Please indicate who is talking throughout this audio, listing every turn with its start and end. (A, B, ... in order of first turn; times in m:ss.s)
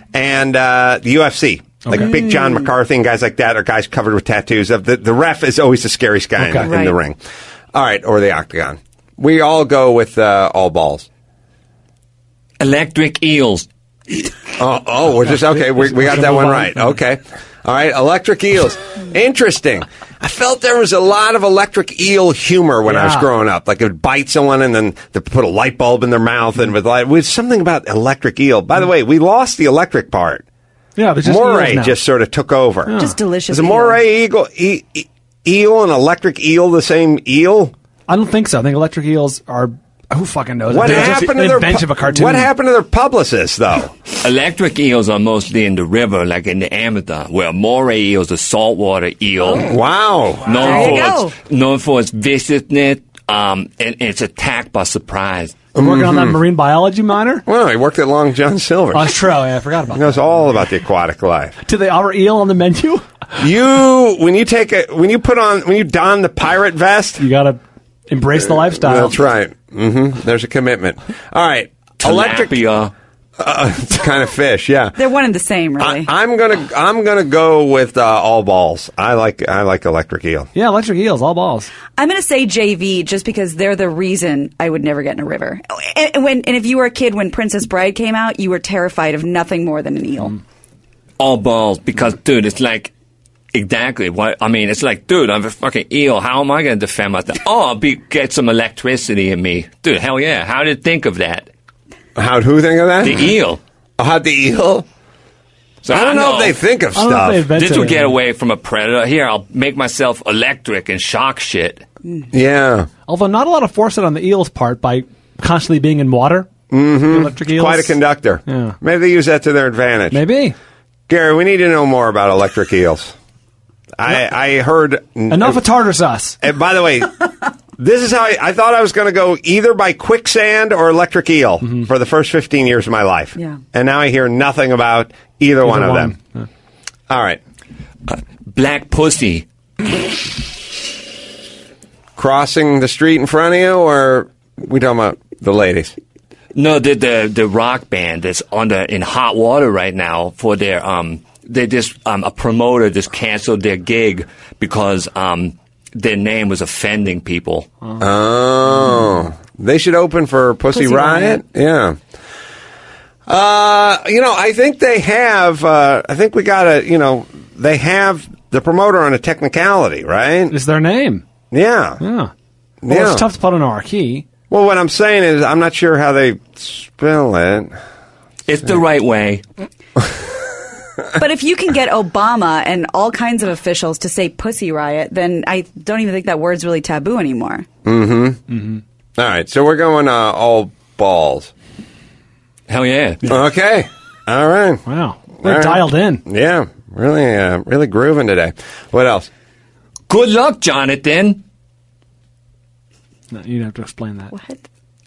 0:00.1-0:07.2 A
0:01.9-0:02.1 B
0:01.9-0:02.7 C
0:06.4-0:06.7 B
0:06.6-0:07.0 C
0:07.7-0:11.1 A
0:12.6-0:13.7 D
0:14.6-0:30.4 A
0:15.2-0:17.0 B
0:22.9-0:23.3 B
0:31.0-0:32.0 B
0:31.2-0:32.9 A
0:32.9-0:33.2 B
0:32.9-0:34.0 C
0:33.5-0:37.7 A
0:38.1-0:42.5 B
0:40.7-0:43.9 A
0:40.8-0:41.2 D
0:44.2-0:49.7 D
0:49.5-0:51.0 A
0:50.5-0:55.6 D
0:50.6-0:51.3 C
0:55.8-0:56.4 A
0:55.8-0:57.4 B
0:57.5-0:59.2 A
0:58.9-1:00.7 B
0:59.9-1:01.6 A
1:01.6-1:03.1 B
1:03.4-1:07.2 A
1:07.2-1:09.2 B
1:08.6-1:12.6 A
1:12.0-1:12.9 D
1:13.4-1:15.0 A
1:15.0-1:16.1 C
1:15.8-1:20.5 A
1:20.6-1:21.7 B
1:22.0-1:30.4 C
1:31.2-1:32.9 D
1:33.5-1:41.5 D
1:42.2-1:43.3 A
1:43.0-1:43.6 D
1:44.0-1:44.8 A
1:45.8-1:46.6 D
1:45.9-1:47.5 A
1:47.0-1:48.1 B
1:47.6-1:51.8 D
1:52.3-1:52.9 A
1:53.1-1:56.5 B
1:56.7-2:00.2 A
1:57.1-1:58.8 B
2:00.1-2:00.6 B
2:01.1-2:03.2 A
2:04.0-2:05.6 A
2:05.3-2:06.4 B
2:06.4-2:07.1 A
2:07.8-2:16.2 A
2:11.6-2:11.9 B
2:13.4-2:13.6 C
2:15.6-2:16.5 B
2:17.1-2:17.4 A
2:18.1-2:19.5 D
2:22.2-2:26.0 A
2:26.6-2:37.7 D
2:38.0-2:42.0 A
2:40.7-2:41.4 C
2:43.3-2:50.5 A
2:50.5-2:51.2 B
2:51.5-2:52.0 A
2:52.0-2:52.3 B
2:52.8-2:53.2 A
2:52.9-2:54.3 B
2:54.5-2:57.7 A
2:58.5-2:59.4 D
3:01.2-3:07.7 C
3:07.9-3:08.4 A
3:08.5-3:08.8 B
3:09.2-3:11.5 A
3:12.7-3:13.2 D
3:13.2-3:14.8 A
3:14.9-3:16.2 B
3:15.4-3:19.3 A
3:20.1-3:21.4 D
3:23.3-3:24.3 B
3:24.3-3:24.6 C